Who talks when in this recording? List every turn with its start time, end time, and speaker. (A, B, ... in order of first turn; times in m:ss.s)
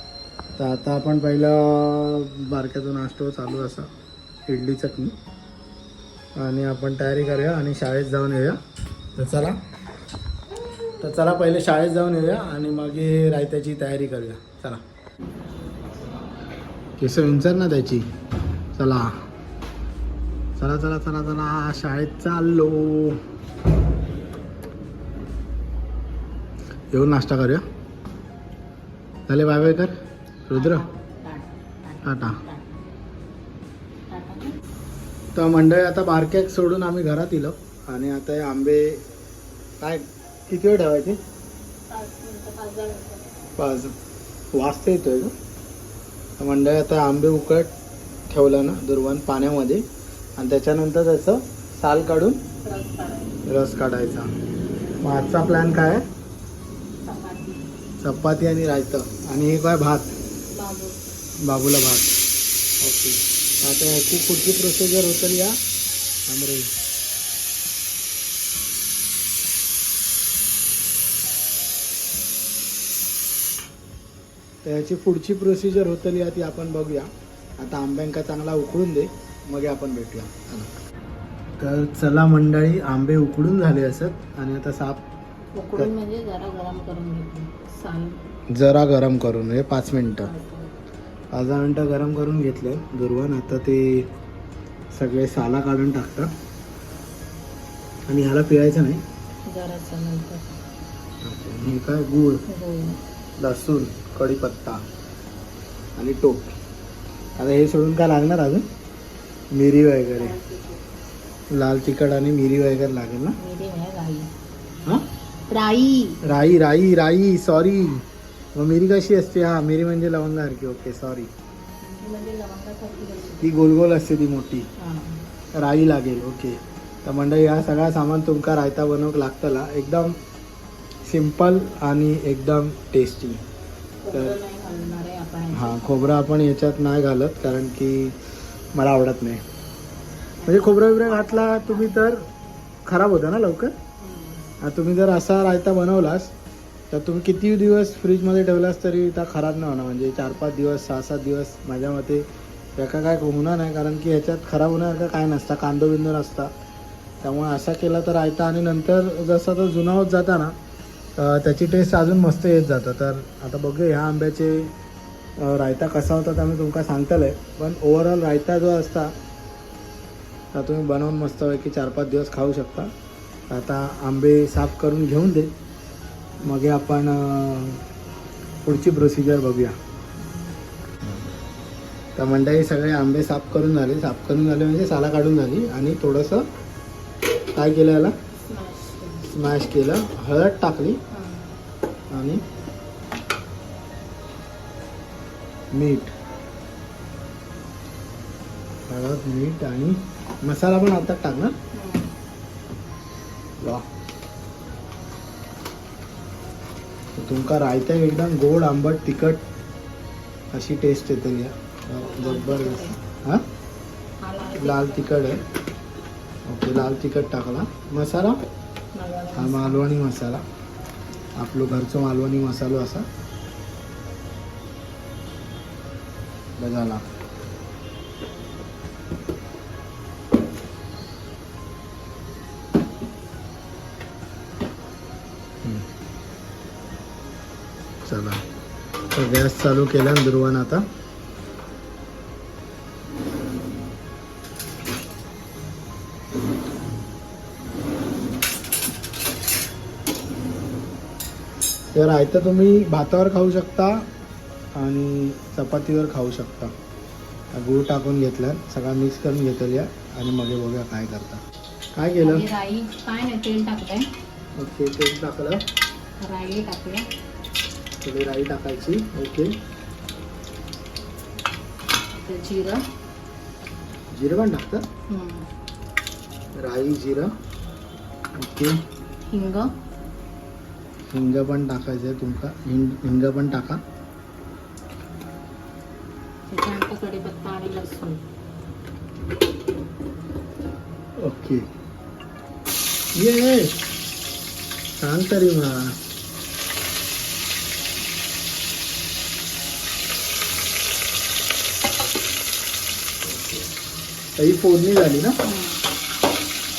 0:00.6-0:03.9 A
0:04.5-0:05.2 A
0:06.4-0:08.6 A
0:09.2-0:09.6 A
0:11.0-0:14.8 A
0:17.0-0:18.1 A
0:18.8-0:19.1 A
0:20.6-0:23.2 A
0:26.9-0:27.6 A
0:29.3-0:30.0 A
0:30.5-0:30.8 A
0:30.5-0:32.8 B
0:32.0-0:32.4 A
0:34.1-0:34.6 B
0:35.4-0:39.0 A
0:39.8-0:41.2 A
0:41.9-0:43.3 B
0:43.6-0:43.9 A
0:44.5-0:45.3 A
0:46.4-0:47.7 A
0:48.3-0:49.8 A
0:50.4-0:52.4 A
0:52.6-0:53.4 B
0:53.5-0:54.3 A
0:55.0-0:56.0 A
0:57.0-0:57.6 B
0:58.0-1:00.1 A
1:00.5-1:01.0 B
1:01.4-1:02.2 A
1:02.8-1:05.6 A
1:06.3-1:06.7 A
1:14.6-1:20.8 A
1:21.6-1:25.0 A
1:25.6-1:28.2 B
1:28.5-1:30.3 A
1:30.2-1:30.8 B
1:31.3-1:34.1 A
1:34.9-1:36.3 A
1:38.1-1:39.0 A
1:39.5-1:40.6 B
1:41.2-1:42.4 A
1:42.5-1:43.0 B
1:43.4-1:44.8 A
1:46.0-1:46.6 A
1:47.4-1:48.6 A
1:49.5-1:50.3 A
1:50.1-1:50.9 B
1:51.5-1:53.4 A
1:53.4-1:54.3 B
1:55.5-1:56.2 B
1:56.2-2:01.3 A
2:01.8-2:03.5 B
2:03.4-2:04.7 A
2:04.8-2:05.2 B
2:05.5-2:10.2 A
2:11.0-2:13.4 A
2:14.0-2:16.0 B
2:14.1-2:14.4 A
2:15.5-2:18.2 A
2:18.7-2:19.4 A
2:20.4-2:22.0 B
2:20.4-2:22.3 A
2:22.8-2:23.7 A
2:24.0-2:24.5 B
2:24.6-2:26.3 A
2:26.9-2:36.5 A
2:37.2-2:40.6 A
2:41.2-2:44.7 A
2:45.4-2:49.1 A
2:50.5-2:52.9 A
2:53.5-2:55.5 A
2:56.4-2:57.8 A
2:58.6-2:59.8 A
3:02.2-3:06.5 A
3:07.5-3:08.1 A
3:08.4-3:09.3 B
3:09.3-3:11.0 A
3:11.1-3:11.6 B
3:12.1-3:12.4 A
3:15.7-3:16.1 A
3:18.9-3:21.6 A
3:21.7-3:22.1 B
3:27.2-3:29.4 A
3:30.5-3:33.4 A
3:32.0-3:33.0 B
3:34.2-3:35.2 B
3:34.6-3:35.4 A
3:36.5-3:38.4 A
3:38.9-3:39.8 B
3:39.3-3:40.4 A
3:41.4-3:43.1 A
3:46.6-3:47.0 A
3:58.0-3:58.4 A
3:59.1-4:00.8 A
4:11.9-4:14.1 A
4:14.8-4:16.7 A
4:17.5-4:21.4 A
4:22.0-4:22.4 A
4:22.2-4:24.1 B
4:24.6-4:25.6 A
4:26.2-4:27.1 B
4:28.0-4:29.5 A
4:32.1-4:32.8 B
4:34.1-4:34.8 A
4:35.1-4:35.5 B
4:36.6-4:37.3 A
4:38.4-4:38.8 A
4:39.3-4:39.7 B
4:41.1-4:43.8 A
4:46.5-4:48.2 B
4:51.2-4:51.7 A
4:53.2-4:53.9 A
4:55.0-4:56.0 A
5:03.2-5:03.7 A
5:04.4-5:05.4 A
5:05.4-5:05.8 B